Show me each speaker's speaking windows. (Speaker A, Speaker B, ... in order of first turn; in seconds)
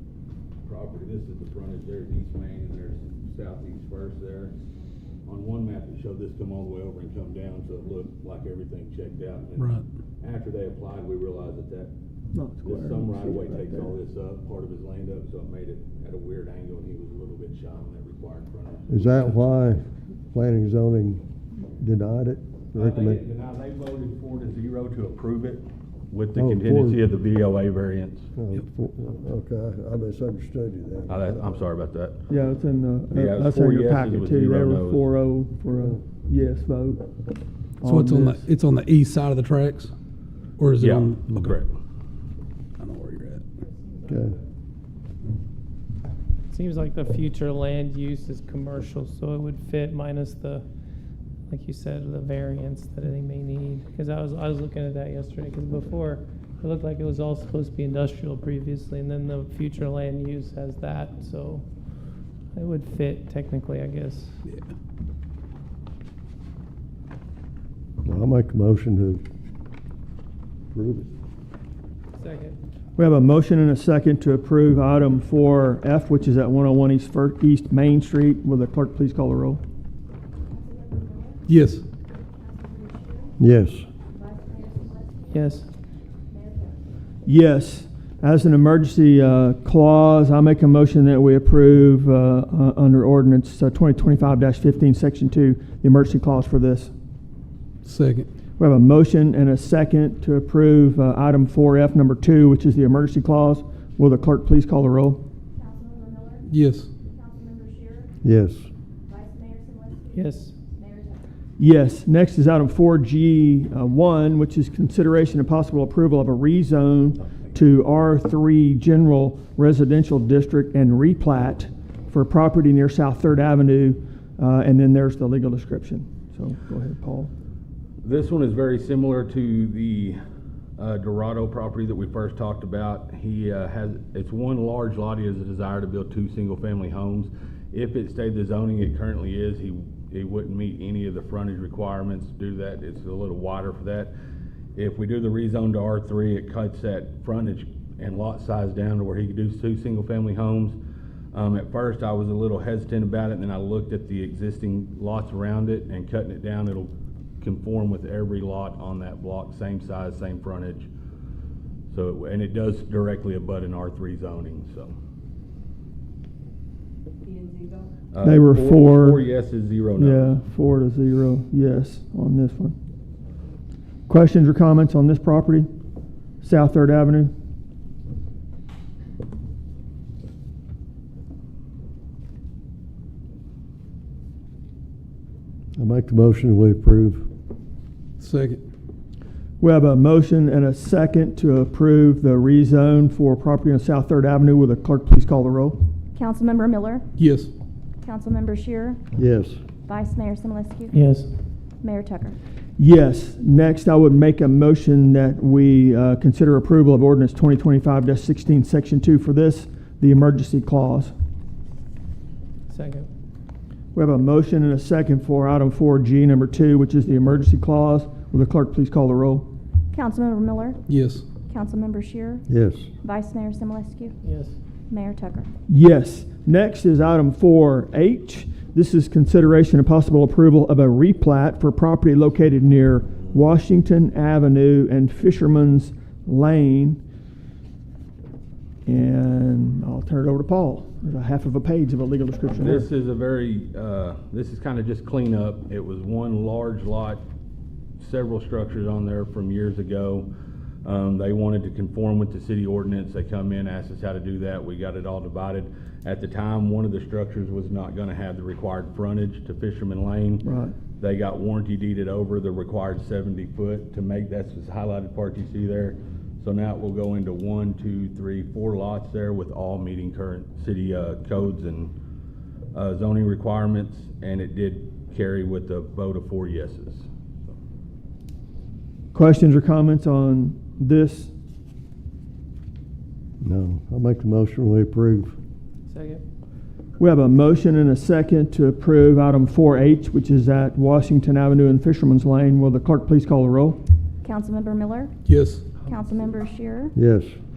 Speaker A: 0.6-4.5, 5.2-11.9, 12.6-19.4, 22.7-28.3, 31.1-32.2, 33.1-35.1, 40.8-41.7, 128.0-130.2, 130.8-144.1, 144.7-150.8, 151.3-160.9, 161.9-164.9, 168.1-170.3, 242.6-247.2, 248.0-250.3, 250.8-260.4, 261.0-271.9, 272.7-277.1
Speaker B: 12.3-13.9, 32.3-37.1, 37.8-38.5, 73.0-79.6, 87.2-96.9, 98.6-105.2, 111.6-127.3, 168.2-169.2, 170.0-172.8, 174.1-175.7, 176.4-177.3, 189.6-195.8, 202.8-211.1, 213.9-219.5, 225.7-237.0, 238.8-242.8, 260.4-260.7, 279.1-281.3, 287.0-293.8
Speaker C: 18.9-21.2, 21.8-23.2, 26.3-27.0, 28.4-31.4, 44.1-44.4, 68.0-69.2, 70.7-71.1, 83.4-83.8, 108.2-108.7, 185.8-187.2, 199.1-199.6, 222.5-222.9, 283.4-285.3, 296.9-297.3
Speaker D: 37.9-39.9, 40.6-41.5, 42.8-43.5, 81.5-81.8, 97.8-98.3, 106.5-106.9, 188.2-188.6, 197.2-197.5, 220.9-221.2, 295.3-295.6
Speaker E: 43.8-44.2, 46.5-50.6, 51.5-61.6, 62.5-64.3, 72.2-72.6, 85.4-85.6, 110.1-110.5, 200.9-201.3, 212.7-213.1, 224.2-224.6, 285.9-286.2
Speaker F: 80.5-81.5, 82.1-83.3, 84.0-85.6, 86.3-86.8, 105.5-106.5, 107.0-108.1, 109.1-111.3, 196.1-197.0, 198.0-199.0, 199.9-201.0, 201.8-202.4, 219.9-220.8, 221.5-222.4, 223.0-224.2, 224.9-225.5, 294.2-295.1, 295.8-296.9